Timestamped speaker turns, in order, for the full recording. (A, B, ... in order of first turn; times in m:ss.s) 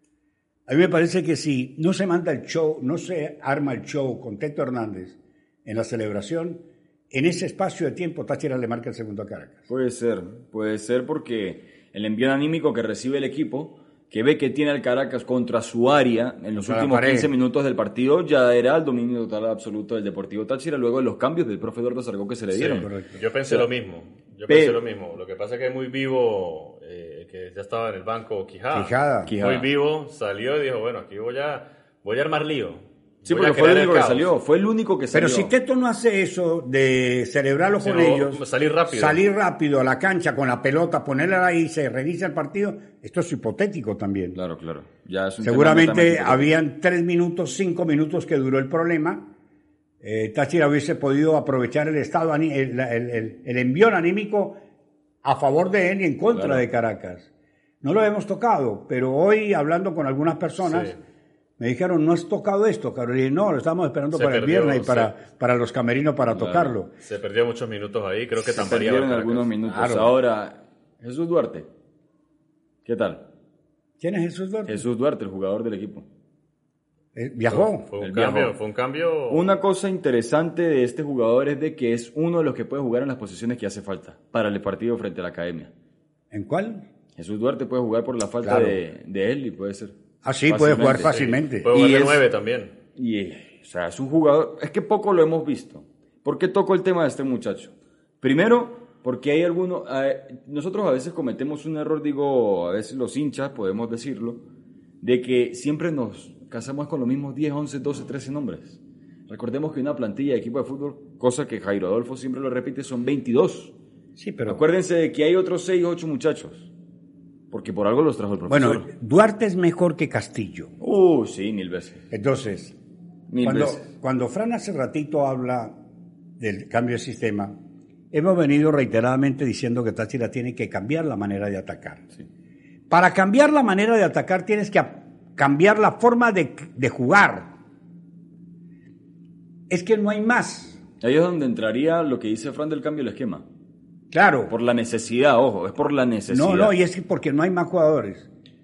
0:00.7-0:09.7 A
0:09.7-0:22.9 B
0:16.6-0:17.3 A
0:22.5-0:34.3 C
0:22.8-0:23.1 A
0:24.5-0:24.8 B
0:28.7-0:29.3 A
0:29.3-0:29.7 B
0:33.2-0:35.5 B
0:35.1-0:44.4 A
0:37.8-0:39.2 C
0:44.3-0:46.5 B
0:45.4-0:49.3 A
0:50.0-0:54.6 A
0:55.2-0:57.3 A
0:56.3-0:56.6 B
0:57.8-1:01.0 A
1:00.6-1:01.0 C
1:01.6-1:06.9 A
1:04.1-1:05.1 C
1:06.3-1:06.7 B
1:07.0-1:09.5 C
1:08.4-1:11.7 B
1:09.6-1:10.1 A
1:12.8-1:13.2 B
1:14.0-1:14.8 A
1:14.7-1:16.1 B
1:17.1-1:17.9 A
1:17.5-1:19.5 C
1:18.0-1:18.6 B
1:19.3-1:25.7 B
1:26.3-1:26.8 A
1:27.2-1:29.9 B
1:28.4-1:28.8 A
1:30.2-1:31.7 A
1:30.5-1:32.2 B
1:30.9-1:32.7 C
1:33.0-1:44.4 B
1:45.0-1:53.7 B
1:54.2-1:54.6 A
1:54.5-1:56.7 B
1:57.5-1:58.9 B
1:58.5-2:00.7 A
2:00.8-2:02.0 B
2:02.1-2:02.8 A
2:03.3-2:03.8 B
2:03.4-2:05.8 A
2:06.4-2:07.6 A
2:08.1-2:12.1 A
2:12.9-2:17.5 A
2:19.7-2:20.8 A
2:21.0-2:23.5 B
2:24.1-2:24.5 A
2:24.5-2:26.7 B
2:26.3-2:28.3 A